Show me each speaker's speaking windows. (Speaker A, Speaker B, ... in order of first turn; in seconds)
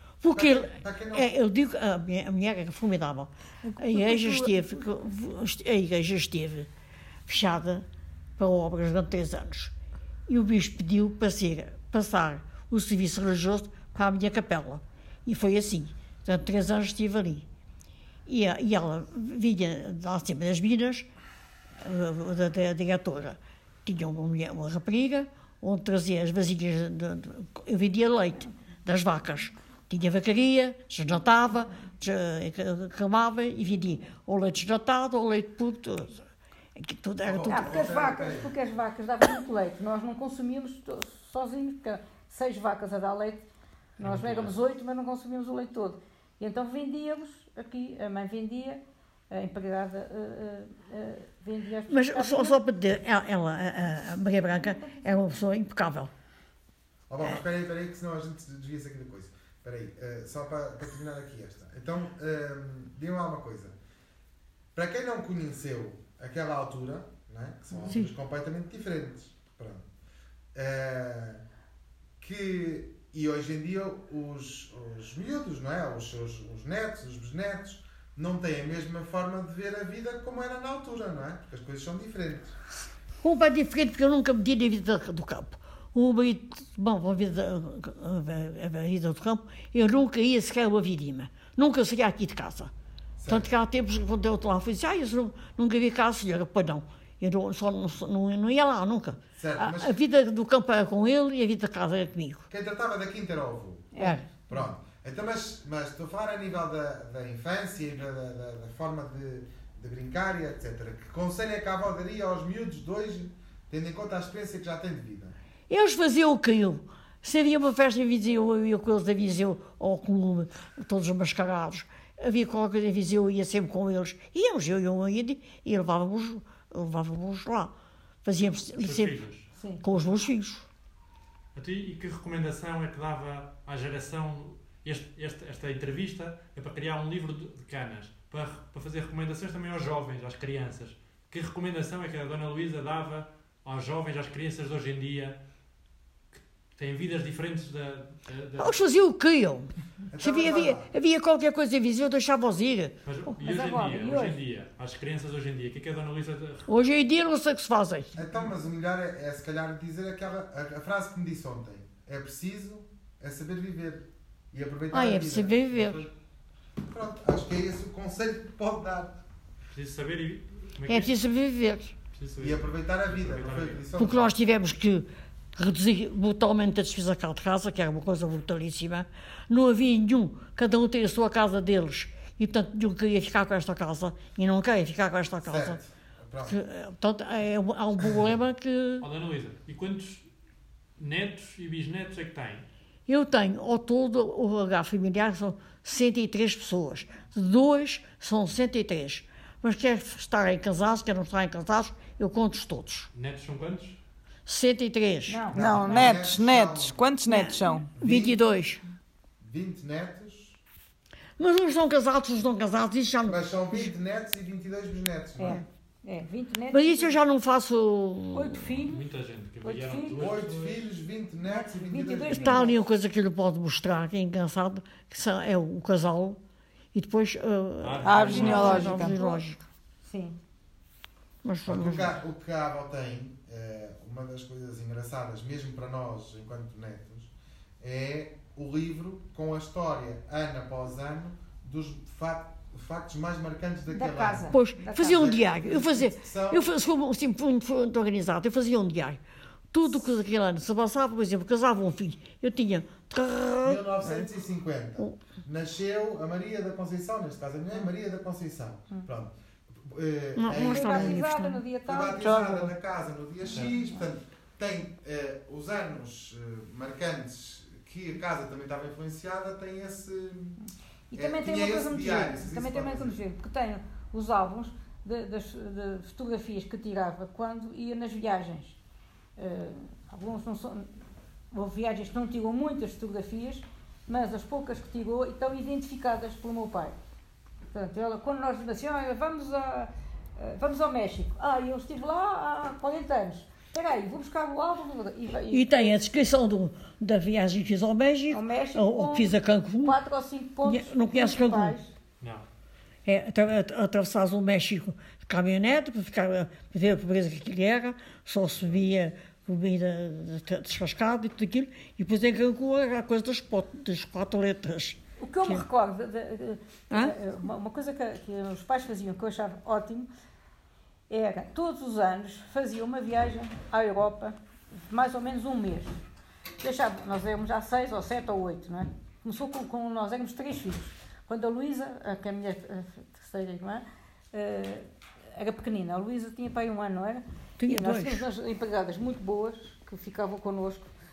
Speaker A: 0.2-6.7, 7.3-7.8, 8.4-9.7, 10.3-17.5, 18.2-21.1, 21.8-36.2, 36.8-37.8, 51.9-56.1, 67.8-68.1, 83.2-92.7, 93.3-102.5, 104.0-104.2, 115.7-127.7, 128.2-129.1, 129.8-130.6, 148.6-152.9, 156.7-158.2, 164.9-166.0, 170.8-171.9, 174.0-185.8, 186.4-189.1, 193.1-203.1, 204.4-205.5, 207.3-208.8, 211.4-213.9, 216.7-218.8, 222.3-226.4, 226.9-229.6, 231.4-232.1, 244.5-249.2, 249.7-254.3, 260.4-261.6, 295.5-300.0, 300.6-301.8, 303.0-315.7, 316.9-317.1, 337.6-338.2
Speaker B: 0.3-1.3, 37.2-38.5, 57.1-63.7, 64.7-69.9, 70.5-71.4, 72.2-82.5, 93.2-93.5, 99.3-100.0, 102.5-103.9, 104.5-115.3, 150.1-150.9, 158.1-166.1, 166.9-169.2, 172.4-174.4, 185.4-186.6, 205.5-207.0, 208.0-208.4, 209.4-210.6, 213.3-215.6, 220.1-222.7, 231.6-246.7, 253.6-261.3, 261.9-270.6, 271.1-273.2
Speaker C: 3.6-4.6, 37.5-43.5, 44.0-52.6, 54.5-55.3, 103.9-104.2, 129.6-129.8, 153.4-154.4, 205.3-206.3, 207.3-207.8, 215.4-217.2, 218.3-219.0, 219.6-220.2, 221.5-222.8, 228.2-229.4, 230.0-230.4, 243.9-245.3, 260.6-262.4, 271.1-278.8, 279.4-280.9, 281.5-286.9, 287.7-295.9, 298.3-301.9, 315.2-320.1, 321.1-326.0, 326.6-340.9
Speaker D: 44.0-44.6, 128.8-129.5, 131.5-145.4, 146.3-148.8, 153.0-156.7, 169.7-171.2, 172.1-173.8, 189.0-190.2, 191.0-192.7, 203.1-204.0, 218.9-220.9, 227.8-229.0, 302.2-302.4
Speaker E: 205.5-207.8, 228.0-229.2, 262.2-262.7